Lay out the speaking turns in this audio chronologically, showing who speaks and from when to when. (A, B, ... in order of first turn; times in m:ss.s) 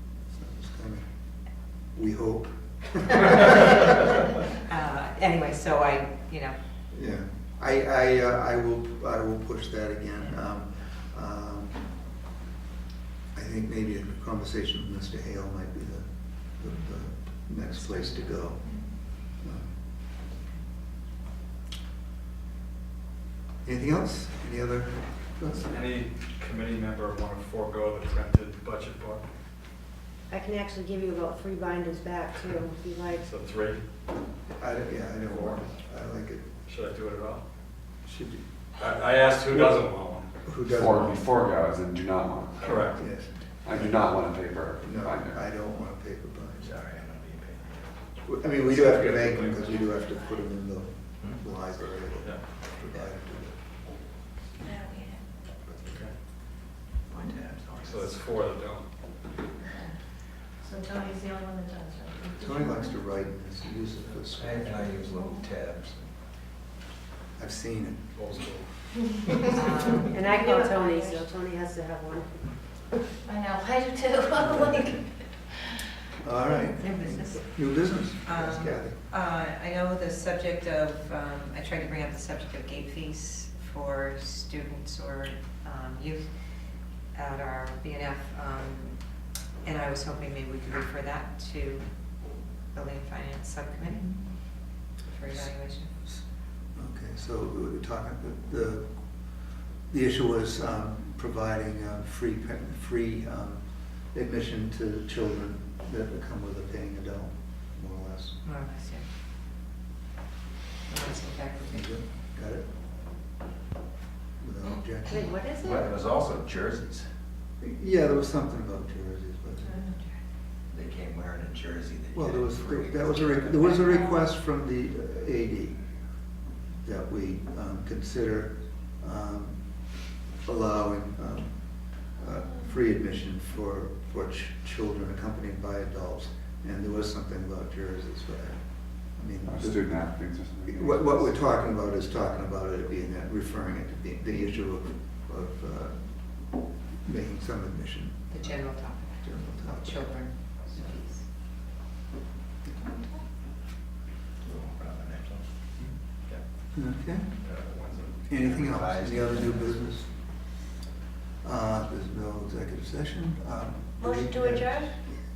0:00.3-0:01.0 A
0:01.9-0:03.8 A
0:04.6-0:06.6 B
0:06.9-0:11.9 A
0:13.3-0:19.7 A
0:23.6-0:25.9 A
0:25.7-0:29.2 C
0:30.3-0:33.3 D
0:33.1-0:33.8 C
0:34.5-0:36.4 A
0:35.2-0:35.6 C
0:36.6-0:37.4 C
0:38.0-0:38.4 A
0:38.8-0:40.3 C
0:40.4-0:41.2 A
0:40.7-0:43.0 E
0:42.6-0:43.0 C
0:42.6-0:43.9 A
0:43.6-0:45.4 E
0:44.8-0:46.8 A
0:46.6-0:47.9 F
0:48.2-0:53.6 A
0:48.6-0:49.8 C
0:49.8-0:50.1 G
0:52.2-0:52.4 C
0:54.6-0:55.2 G
0:55.8-0:56.1 C
0:57.1-0:58.2 F
0:57.8-0:58.9 C
0:59.6-1:00.0 G
1:00.6-1:03.0 G
1:02.3-1:05.0 A
1:04.3-1:06.1 F
1:07.4-1:08.1 A
1:08.1-1:09.0 C
1:09.5-1:10.2 B
1:10.0-1:12.8 D
1:10.2-1:11.3 G
1:13.2-1:15.8 G
1:14.4-1:15.2 A
1:16.2-1:19.0 A
1:16.6-1:17.2 G
1:18.2-1:35.9 B
1:35.8-1:36.2 A
1:36.7-1:39.4 A
1:39.9-1:48.4 A
1:48.4-1:49.1 B
1:50.9-1:51.9 B
1:51.7-1:52.7 A
1:54.4-1:55.3 A
1:55.1-1:55.9 D
1:55.5-1:57.1 F
1:57.6-1:59.9 A
2:00.7-2:04.0 F
2:02.1-2:05.8 A
2:06.8-2:09.7 A
2:10.4-2:20.0 A
2:19.4-2:21.4 E
2:20.7-2:30.1 A
2:28.3-2:31.3 B
2:32.8-2:33.2 B
2:34.4-2:35.4 F
2:36.7-2:37.3 A
2:37.4-2:38.1 C
2:38.3-2:40.1 A
2:38.3-2:39.9 F
2:41.4-2:45.1 A
2:44.0-2:44.9 G